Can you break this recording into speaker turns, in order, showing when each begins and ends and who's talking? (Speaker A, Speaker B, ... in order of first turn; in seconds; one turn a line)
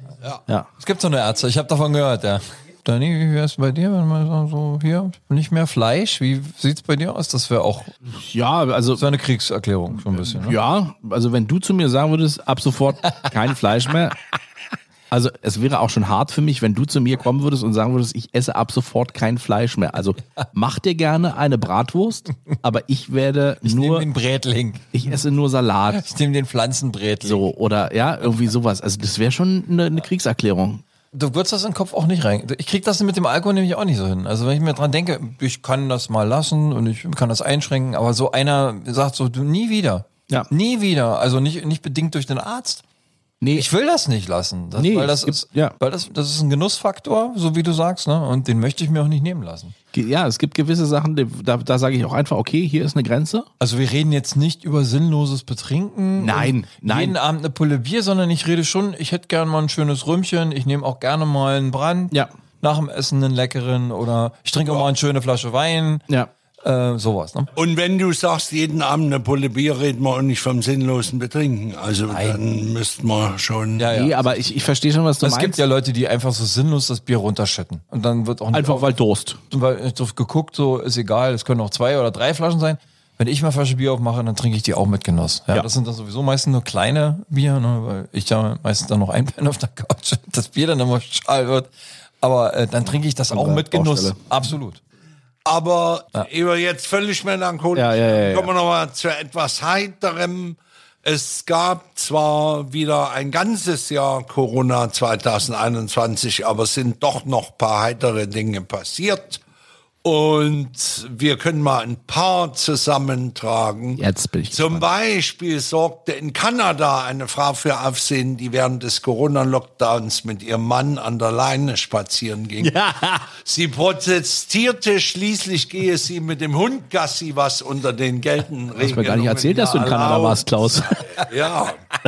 Speaker A: 0.8-7.9
Speaker B: 8.1-9.1
Speaker A: 8.9-10.6
Speaker B: 10.2-14.2
Speaker B: 15.1-24.1
Speaker A: 23.6-25.0
Speaker B: 24.9-26.0
Speaker A: 25.9-27.5
Speaker B: 27.2-30.8
Speaker A: 31.1-42.8
Speaker B: 43.4-43.7
Speaker A: 43.5-49.7
Speaker B: 44.8-45.8
Speaker B: 49.9-53.5
Speaker A: 53.6-66.0
Speaker B: 56.2-57.1
Speaker A: 66.6-67.5
Speaker C: 67.5-73.9
Speaker A: 72.1-72.4
Speaker A: 73.8-74.2
Speaker B: 73.9-75.6
Speaker A: 75.2-78.9
Speaker B: 78.5-79.4
Speaker A: 79.5-91.7
Speaker A: 92.2-94.8
Speaker B: 93.3-94.2
Speaker C: 95.4-109.4
Speaker B: 97.7-98.5
Speaker C: 110.0-130.5
Speaker B: 114.0-114.8
Speaker B: 122.6-123.3
Speaker B: 128.8-131.1
Speaker C: 131.1-131.8